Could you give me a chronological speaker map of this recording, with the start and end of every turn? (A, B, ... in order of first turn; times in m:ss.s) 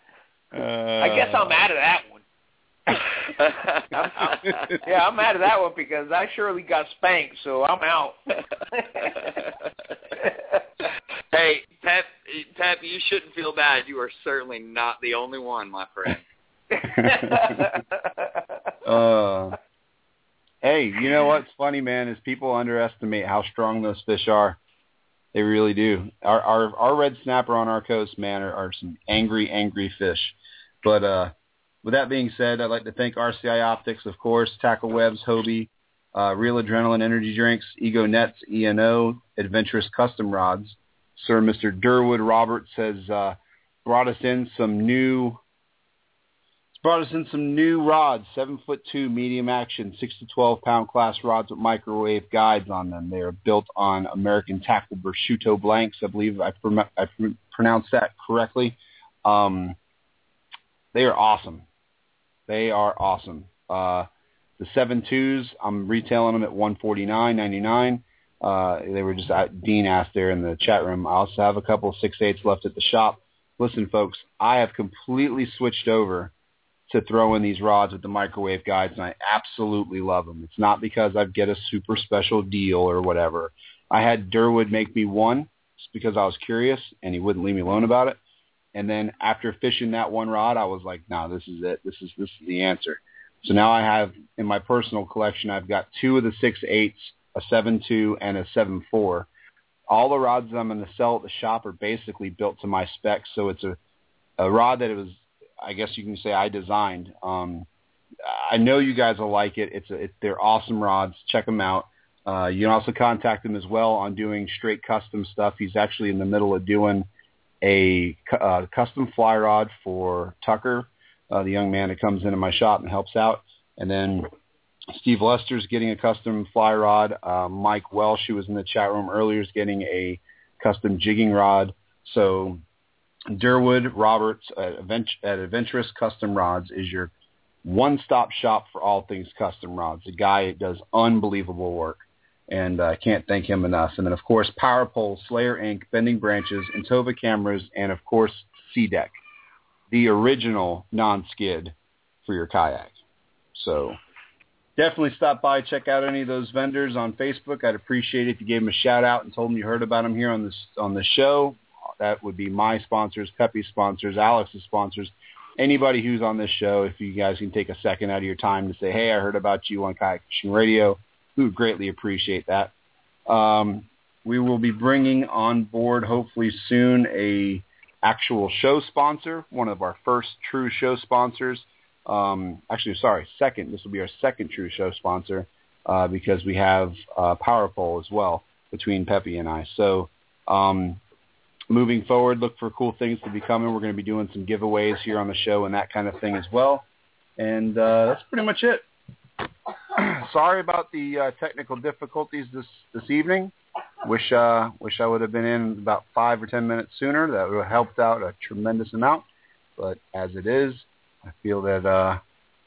0:00.5-0:01.6 A
0:01.0-0:02.2 B
0:03.4-0:04.7 C
0:03.9-0:08.2 B
0:04.4-0:04.7 A
0:08.7-0:09.3 B
0:11.3-0:16.2 C
0:16.8-0:18.4 B
0:16.8-0:17.6 A
0:18.8-0:19.6 A
0:20.6-0:24.6 A
0:25.3-0:31.3 A
0:31.8-0:45.4 A
0:46.7-0:59.8 A
1:00.9-1:01.7 A
1:02.5-1:16.3 A
1:16.9-1:28.2 A
1:28.8-1:39.3 A
1:39.9-1:43.8 A
1:44.4-1:47.7 A
1:48.2-1:57.1 A
1:57.6-2:04.3 A
2:04.9-2:12.6 A
2:13.3-2:17.1 A
2:17.6-2:29.2 A
2:29.9-2:33.0 A
2:33.6-2:34.0 A
2:34.8-2:52.7 A
2:53.3-3:11.0 A
3:11.7-3:16.9 A
3:17.4-3:18.9 A
3:19.9-3:29.2 A
3:29.8-3:32.2 A